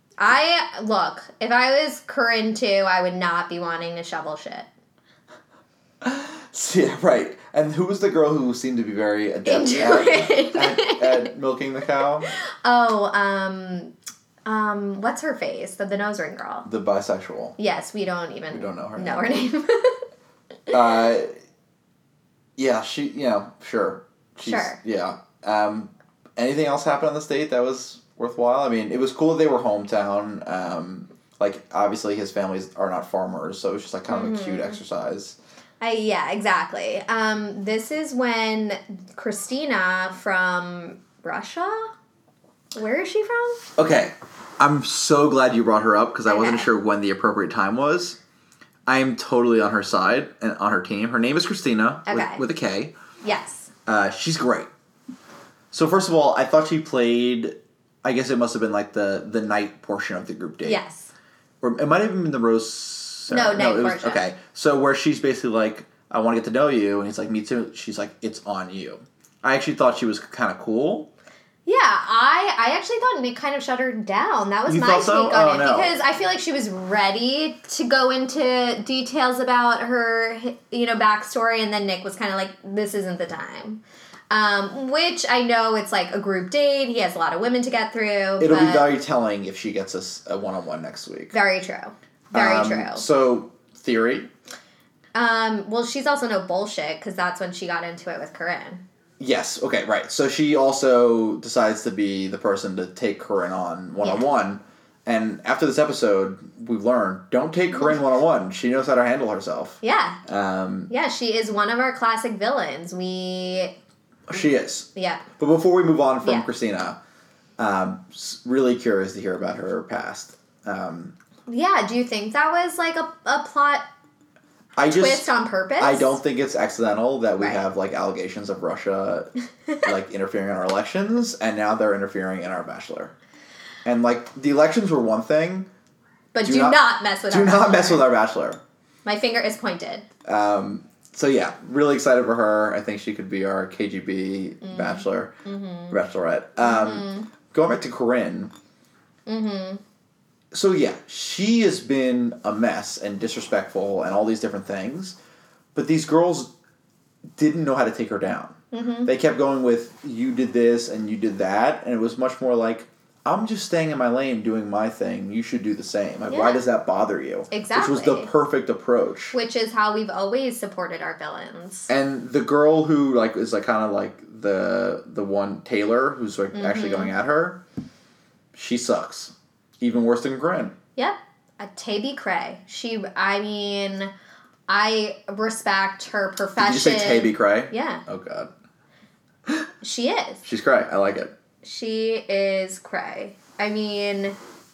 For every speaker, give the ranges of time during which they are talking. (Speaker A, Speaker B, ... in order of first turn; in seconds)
Speaker A: 0.2-4.7, 9.4-11.3, 12.4-13.9, 14.5-16.7, 17.6-20.1, 24.4-24.8, 34.1-34.8, 35.8-41.9, 42.8-43.6, 46.3-46.7, 52.1-52.4, 53.2-53.7, 60.6-61.1, 63.3-64.3, 71.7-88.9, 91.3-93.0, 95.1-98.8, 109.8-110.2, 110.9-113.8, 115.0-115.3, 121.5-123.9, 124.9-126.2, 136.3-138.1, 139.1-140.1, 144.6-146.0, 146.6-147.3, 149.3-149.8, 158.7-159.1, 166.3-166.6, 167.5-168.3, 169.3-171.9, 176.5-177.1, 181.0-184.1, 184.7-188.0, 189.8-190.4, 191.6-194.4
Speaker B: 6.0-12.3, 16.6-17.6, 18.5-19.5, 20.7-21.3, 22.6-35.4, 43.8-48.2, 48.9-53.0, 53.9-54.7, 55.7-60.8, 61.6-71.1, 74.7-76.0, 88.4-91.3, 92.3-94.3, 99.2-110.9, 114.3-117.0, 117.6-121.2, 124.8-129.3, 129.8-133.2, 133.8-135.7, 136.4-138.6, 140.2-145.3, 145.9-148.5, 150.5-155.2, 155.8-156.5, 157.4-169.3, 171.9-177.6, 178.5-180.8, 186.6-188.5, 190.4-191.3